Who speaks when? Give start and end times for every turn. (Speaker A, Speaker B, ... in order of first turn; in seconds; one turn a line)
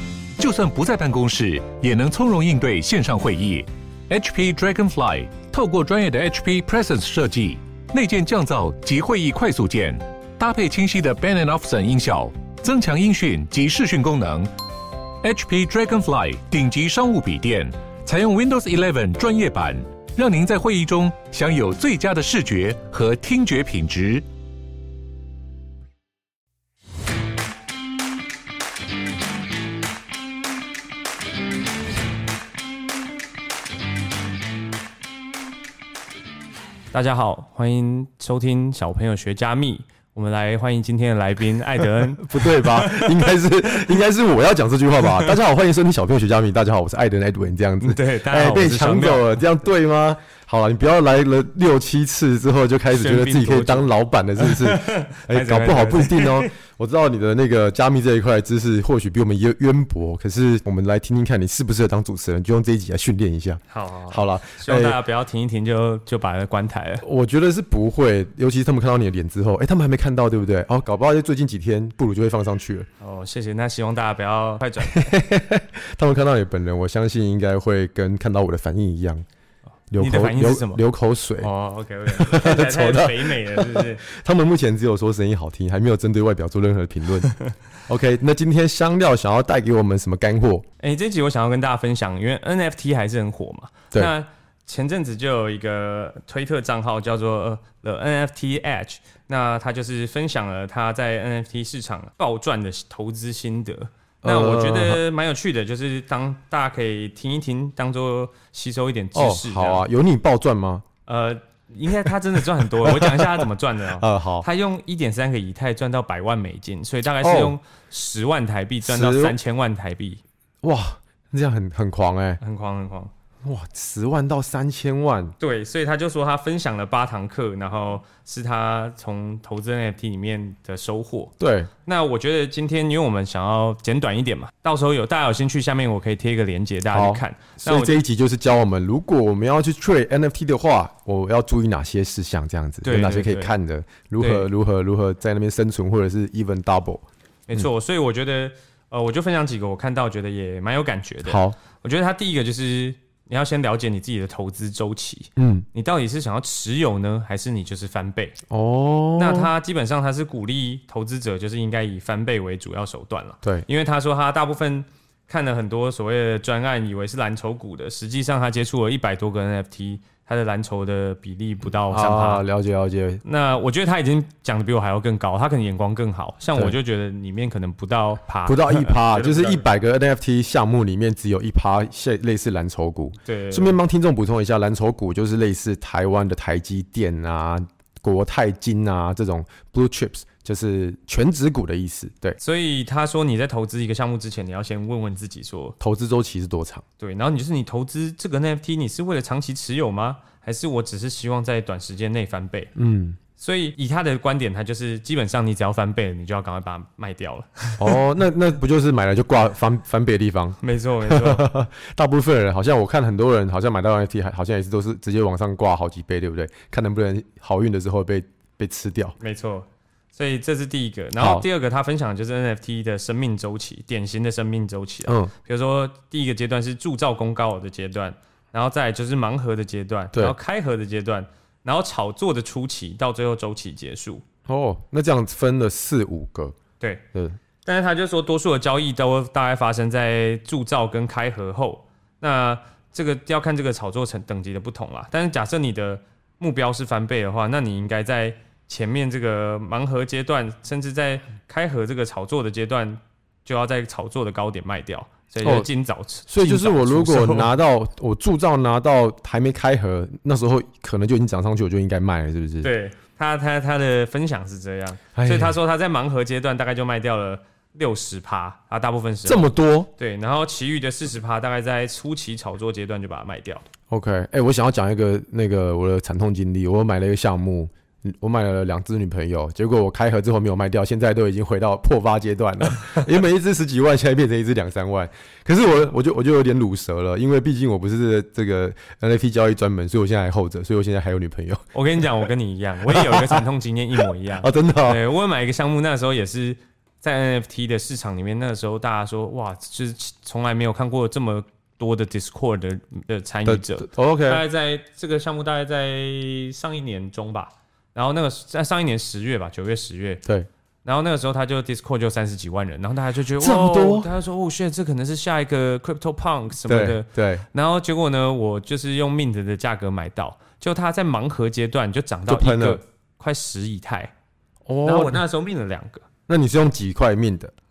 Speaker A: 0.4-14.5
Speaker A: 15.2-24.2
Speaker B: 36.9-43.4
Speaker C: 42.2-65.0
Speaker B: 45.0-45.4
Speaker B: 47.8-49.4
Speaker B: 52.9-56.5
Speaker B: 63.7-67.0
Speaker C: 67.0-72.9
Speaker B: 73.0-75.0
Speaker C: 74.8-79.2
Speaker C: 79.9-81.5
Speaker B: 80.0-80.8
Speaker B: 81.4-84.0
Speaker C: 82.1-87.3
Speaker C: 87.9-90.7
Speaker B: 90.8-109.9
Speaker C: 104.2-105.0
Speaker C: 109.2-110.8
Speaker B: 111.1-120.2
Speaker C: 112.7-114.5
Speaker C: 117.2-117.6
Speaker C: 118.8-119.4
Speaker C: 120.6-122.4
Speaker B: 122.4-123.1
Speaker C: 123.4-125.3
Speaker B: 125.4-138.0
Speaker C: 131.4-131.7
Speaker C: 136.9-147.0
Speaker B: 142.8-143.5
Speaker B: 144.2-144.5
Speaker B: 147.5-158.4
Speaker C: 151.2-151.6
Speaker C: 155.4-155.7
Speaker C: 158.5-159.5
Speaker B: 159.2-172.5
Speaker C: 171.9-173.2
Speaker B: 173.2-179.7
Speaker C: 178.4-192.4
Speaker B: 183.2-183.8
Speaker B: 192.4-195.8
Speaker C: 195.8-196.8
Speaker B: 197.0-202.7
Speaker C: 202.8-203.2
Speaker B: 203.4-208.0
Speaker C: 207.8-219.2
Speaker B: 210.6-211.5
Speaker B: 219.2-234.2
Speaker C: 221.2-221.4
Speaker C: 225.1-225.3
Speaker C: 234.5-236.6
Speaker B: 237.6-257.6
Speaker C: 255.4-255.7
Speaker C: 256.3-262.7
Speaker B: 262.6-273.6
Speaker C: 265.1-265.6
Speaker C: 269.2-269.9
Speaker C: 273.9-291.6
Speaker B: 291.7-310.2
Speaker C: 292.9-293.4
Speaker C: 294.4-295.0
Speaker C: 303.5-304.4
Speaker B: 310.8-324.1
Speaker C: 313.4-314.1
Speaker C: 316.6-317.4
Speaker C: 322.3-322.8
Speaker C: 324.7-325.2
Speaker B: 324.8-326.0
Speaker C: 326.3-327.5